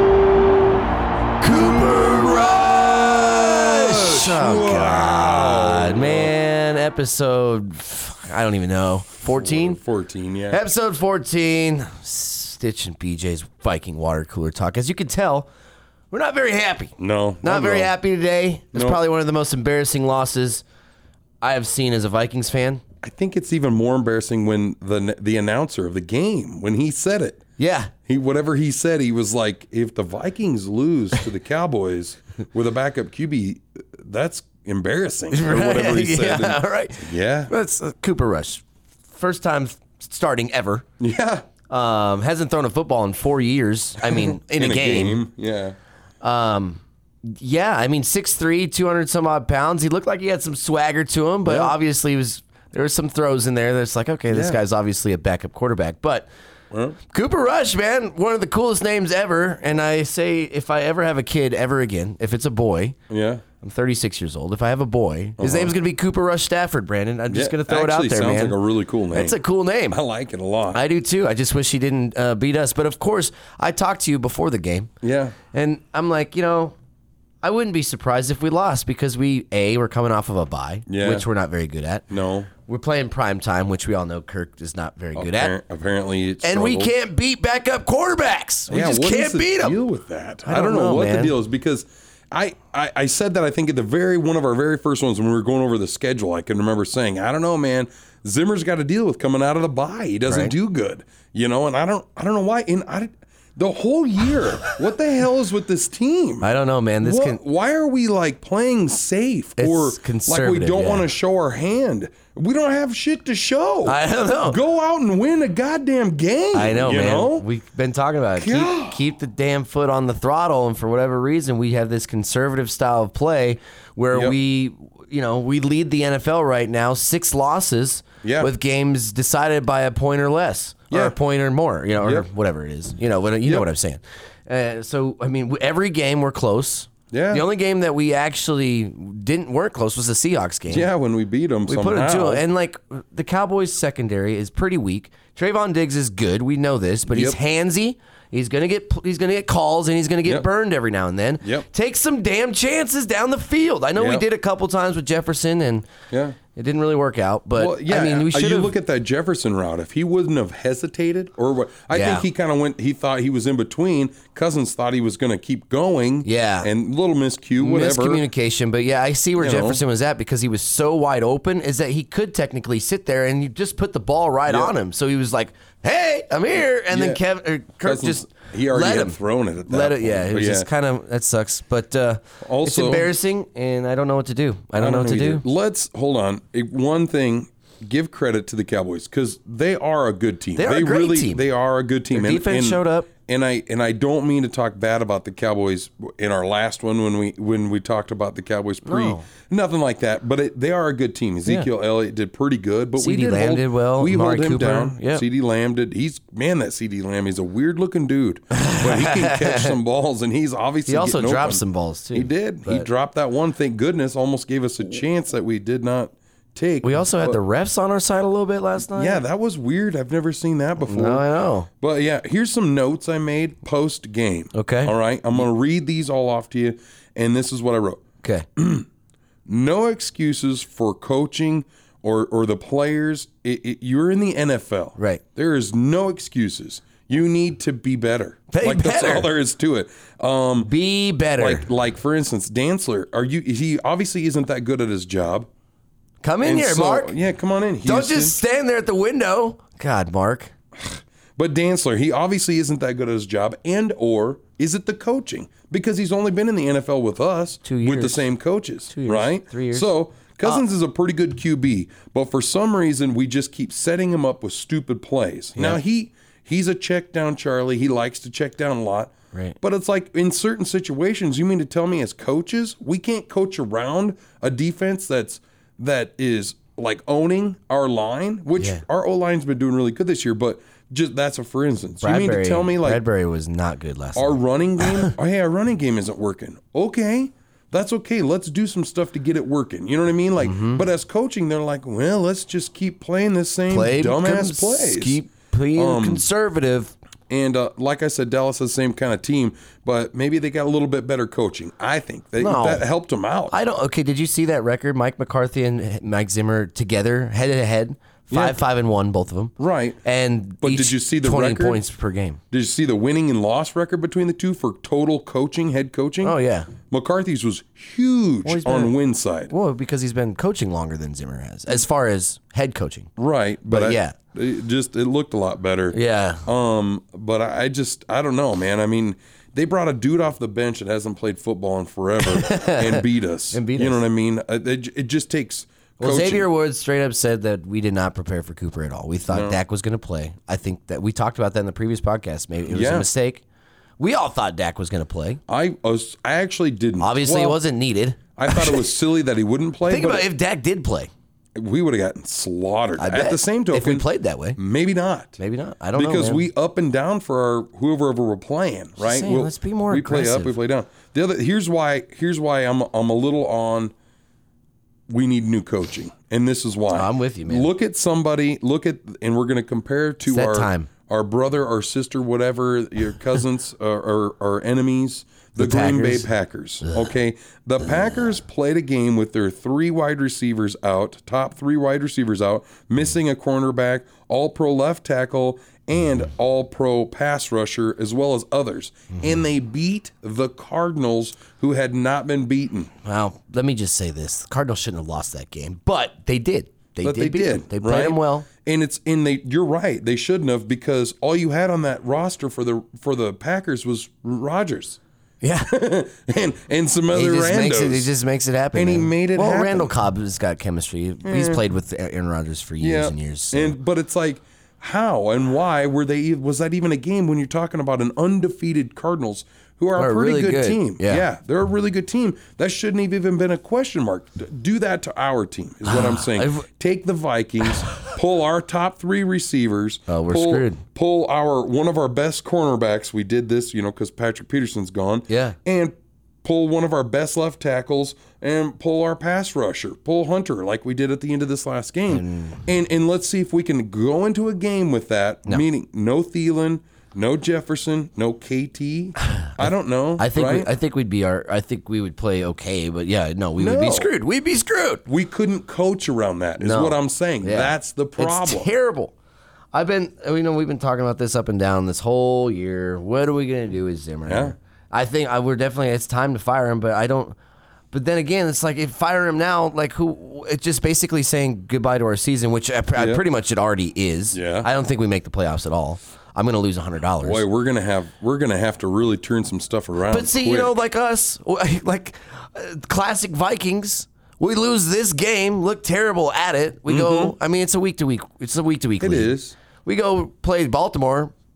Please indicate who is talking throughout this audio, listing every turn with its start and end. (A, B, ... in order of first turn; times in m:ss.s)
0:01.4-0:09.8 A
0:01.6-0:06.3 B
0:09.3-0:10.6 B
0:10.5-0:15.5 A
0:16.1-0:20.6 A
0:17.0-0:17.9 B
0:18.7-0:19.0 B
0:21.4-0:22.8 A
0:23.0-0:27.4 B
0:27.6-0:27.9 A
0:28.0-0:37.5 B
0:35.3-0:40.8 A
0:41.0-0:41.5 B
0:41.7-0:45.2 A
0:44.0-0:45.8 B
0:46.2-0:56.3 A
0:51.4-0:51.7 B
0:54.3-0:54.6 B
0:56.7-0:57.0 B
0:57.1-1:03.0 A
1:03.1-1:03.4 B
1:03.6-1:08.6 A
1:05.4-1:05.7 B
1:07.3-1:09.4 B
1:09.1-1:10.0 A
1:09.9-1:10.8 B
1:10.7-1:14.9 A
1:15.0-1:15.3 B
1:15.5-1:16.7 A
1:17.4-1:22.0 A
1:20.9-1:21.2 B
1:22.1-1:22.5 B
1:22.6-1:25.5 A
1:25.1-1:26.9 B
1:26.4-1:29.8 A
1:28.7-1:46.5 B
1:30.4-1:31.3 A
1:40.3-1:40.5 A
1:46.4-1:47.4 A
1:47.0-1:57.5 B
1:49.6-1:51.1 A
1:53.8-1:54.6 A
1:56.5-2:20.9 A
1:58.4-1:59.0 B
2:08.2-2:08.5 B
2:10.9-2:11.2 B
2:12.0-2:12.3 B
2:17.1-2:17.4 B
2:20.7-2:22.4 B
2:21.7-2:35.9 A
2:27.1-2:27.4 B
2:34.0-2:34.2 B
2:36.1-2:36.4 B
2:36.5-2:38.7 A
2:37.6-2:48.2 B
2:41.9-2:42.2 A
2:46.2-2:46.7 A
2:47.6-3:05.4 A
2:49.4-2:49.8 B
2:54.5-2:54.7 B
2:56.9-2:57.2 B
2:57.8-3:00.7 B
3:02.4-3:03.1 B
3:04.8-3:31.6 B
3:10.6-3:11.4 A
3:12.1-3:13.1 A
3:18.8-3:19.2 A
3:23.0-3:25.2 A
3:28.5-3:29.8 A
3:30.9-3:32.9 A
3:32.1-3:37.4 B
3:36.8-3:39.2 A
3:38.9-3:41.2 B
3:40.8-3:41.7 A
3:41.8-3:48.0 B
3:44.5-3:44.9 A
3:48.6-3:48.9 B
3:49.4-4:00.7 B
3:58.5-3:59.3 A
4:00.6-4:01.6 A
4:01.4-4:05.5 B
4:06.2-4:07.1 A
4:06.4-4:08.4 B
4:07.8-4:10.5 A
4:10.8-4:43.0 B
4:17.6-4:18.3 A
4:18.9-4:19.9 A
4:25.6-4:25.8 A
4:42.0-4:45.1 A
4:44.2-4:55.2 B
4:50.4-4:50.8 A
4:53.7-4:56.9 A
4:55.7-4:56.2 B
4:57.3-5:03.6 B
5:02.4-5:02.8 A
5:03.5-5:12.4 A
5:08.3-5:08.6 B
5:09.6-5:10.0 B
5:10.6-5:11.8 B
5:12.5-5:19.5 B
5:16.2-5:16.7 A
5:18.4-5:18.9 A
5:19.5-5:23.1 A
5:23.2-5:36.5 B
5:23.7-5:24.2 A
5:25.9-5:26.4 A
5:32.2-5:34.0 A
5:36.0-5:43.4 A
5:39.3-5:39.6 B
5:42.7-5:43.1 B
5:44.0-5:45.4 A
5:45.5-5:47.6 B
5:47.0-5:48.9 A
5:48.4-5:50.3 B
5:49.8-5:51.1 A
5:51.5-5:54.0 B
5:53.0-5:54.6 A
5:54.6-5:55.4 B
5:55.4-5:56.4 A
5:55.9-6:03.9 B
5:59.0-6:00.5 A
6:05.1-6:32.9 B
6:06.9-6:07.7 A
6:10.2-6:10.9 A
6:15.6-6:16.3 A
6:33.0-6:38.5 A
6:37.0-6:45.0 B
6:45.4-6:45.7 A
6:45.7-6:48.1 B
6:47.1-6:53.8 A
6:48.7-6:49.9 B
6:51.2-6:51.6 B
6:52.8-7:30.7 B
7:00.0-7:01.2 A
7:05.8-7:06.7 A
7:10.1-7:10.8 A
7:15.3-7:15.6 A
7:22.1-7:22.6 A
7:29.3-7:35.0 A
7:33.6-7:34.1 B
7:35.0-7:38.7 B
7:36.6-7:39.1 A
7:39.7-7:47.4 A
7:44.3-7:44.5 B
7:47.9-7:57.4 A
7:53.0-7:53.2 B
7:54.3-7:54.7 B
7:57.2-8:00.7 B
8:00.1-8:11.3 A
8:06.9-8:07.4 B
8:09.0-8:09.6 B